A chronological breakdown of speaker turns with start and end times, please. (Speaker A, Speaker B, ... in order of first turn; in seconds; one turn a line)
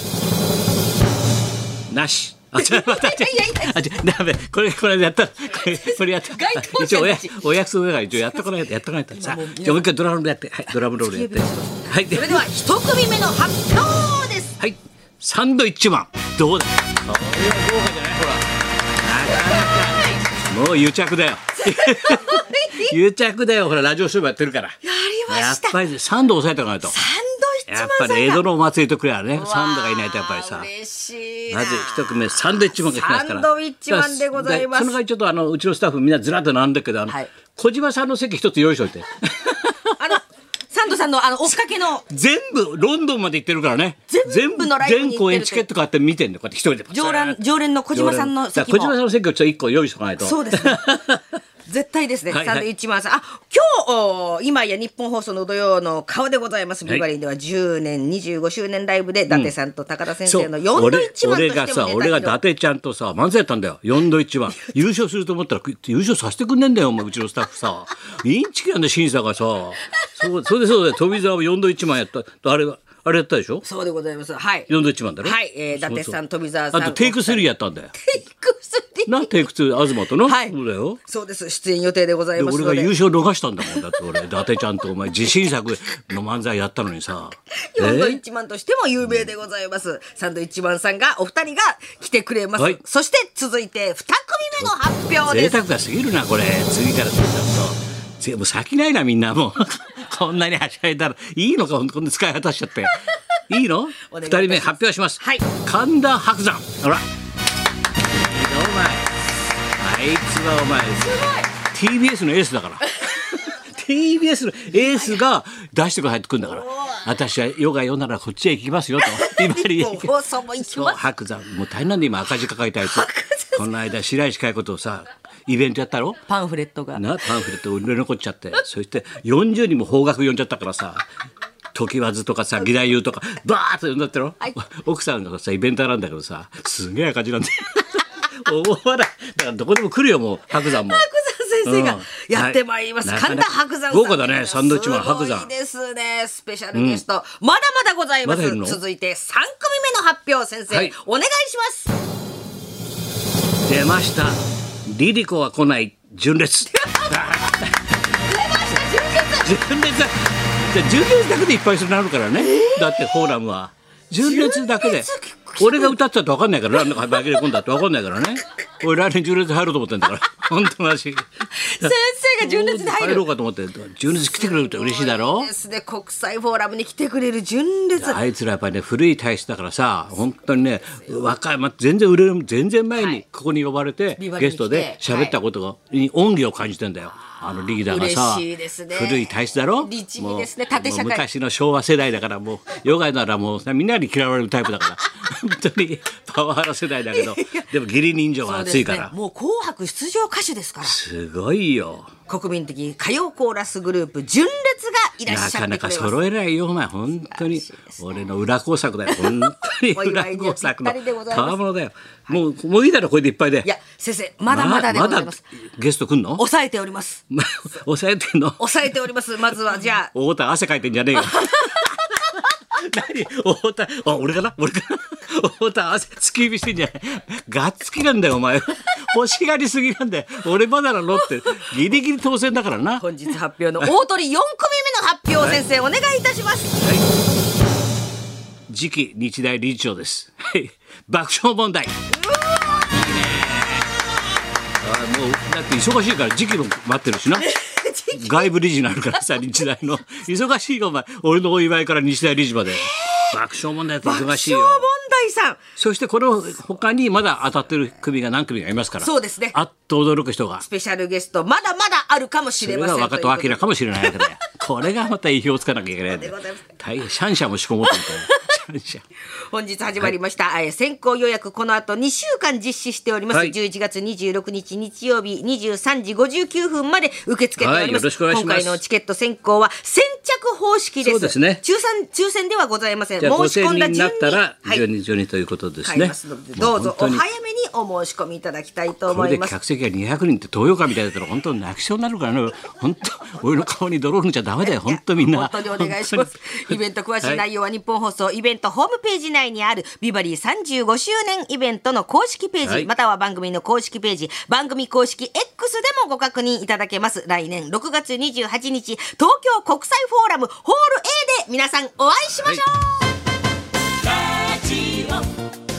Speaker A: 1.9-12.4
Speaker B: 2.6-3.8
Speaker B: 5.5-7.5
Speaker B: 9.1-9.9
Speaker B: 10.7-14.6
Speaker A: 14.6-18.5
Speaker A: 19.0-24.8
Speaker B: 19.4-20.2
Speaker B: 21.6-23.0
Speaker B: 24.8-25.8
Speaker A: 25.3-26.9
Speaker B: 26.8-28.4
Speaker A: 27.7-30.7
Speaker B: 29.3-35.0
Speaker A: 31.5-40.0
Speaker B: 40.0-42.1
Speaker A: 42.1-47.4
Speaker B: 44.1-45.7
Speaker B: 46.9-49.0
Speaker A: 47.9-51.2
Speaker B: 50.2-51.0
Speaker B: 51.7-62.4
Speaker A: 52.3-52.7
Speaker A: 60.2-73.7
Speaker B: 73.6-74.7
Speaker A: 74.7-76.2
Speaker B: 75.2-79.5
Speaker A: 76.7-77.9
Speaker A: 79.1-81.0
Speaker B: 80.2-82.9
Speaker A: 82.4-88.2
Speaker B: 87.7-95.6
Speaker A: 95.2-103.0
Speaker A: 103.5-107.0
Speaker B: 104.1-105.5
Speaker A: 108.2-109.1
Speaker A: 109.8-126.2
Speaker B: 111.0-111.5
Speaker B: 116.5-117.0
Speaker B: 119.0-121.0
Speaker B: 122.8-123.7
Speaker B: 126.3-127.3
Speaker A: 127.0-131.0
Speaker A: 131.8-141.0
Speaker B: 140.5-151.9
Speaker A: 141.7-145.5
Speaker A: 146.7-147.0
Speaker A: 148.2-148.8
Speaker A: 153.7-157.8
Speaker B: 156.8-157.4
Speaker B: 158.2-159.5
Speaker A: 159.4-171.3
Speaker B: 162.4-163.3
Speaker B: 164.2-166.0
Speaker B: 171.5-173.3
Speaker A: 171.8-175.5
Speaker B: 174.1-178.2
Speaker A: 178.0-199.1
Speaker B: 183.0-183.2
Speaker B: 184.2-185.4
Speaker B: 187.7-191.2
Speaker B: 197.1-197.7
Speaker B: 198.4-201.0
Speaker A: 200.8-202.1
Speaker B: 202.3-206.2
Speaker A: 205.3-213.7
Speaker B: 207.3-208.0
Speaker B: 209.1-211.6
Speaker B: 213.6-215.4
Speaker A: 214.5-216.4
Speaker B: 216.4-217.2
Speaker A: 217.3-218.7
Speaker B: 218.6-220.1
Speaker A: 220.1-233.0
Speaker B: 221.2-222.1
Speaker B: 233.0-236.8
Speaker A: 236.8-237.1
Speaker A: 238.7-242.0
Speaker B: 242.1-243.1
Speaker A: 242.9-243.8
Speaker A: 244.8-247.5
Speaker B: 247.4-248.5
Speaker A: 248.2-254.9
Speaker B: 252.7-253.4
Speaker B: 254.0-255.6
Speaker A: 255.8-260.6
Speaker B: 259.0-259.6
Speaker B: 260.6-264.3
Speaker A: 262.6-269.0
Speaker B: 266.1-266.7
Speaker B: 267.9-268.4
Speaker B: 269.5-284.8
Speaker A: 277.6-278.8
Speaker A: 281.0-281.6
Speaker A: 283.2-287.2
Speaker B: 285.9-289.6
Speaker A: 289.0-297.4
Speaker B: 294.6-313.1
Speaker A: 314.4-315.2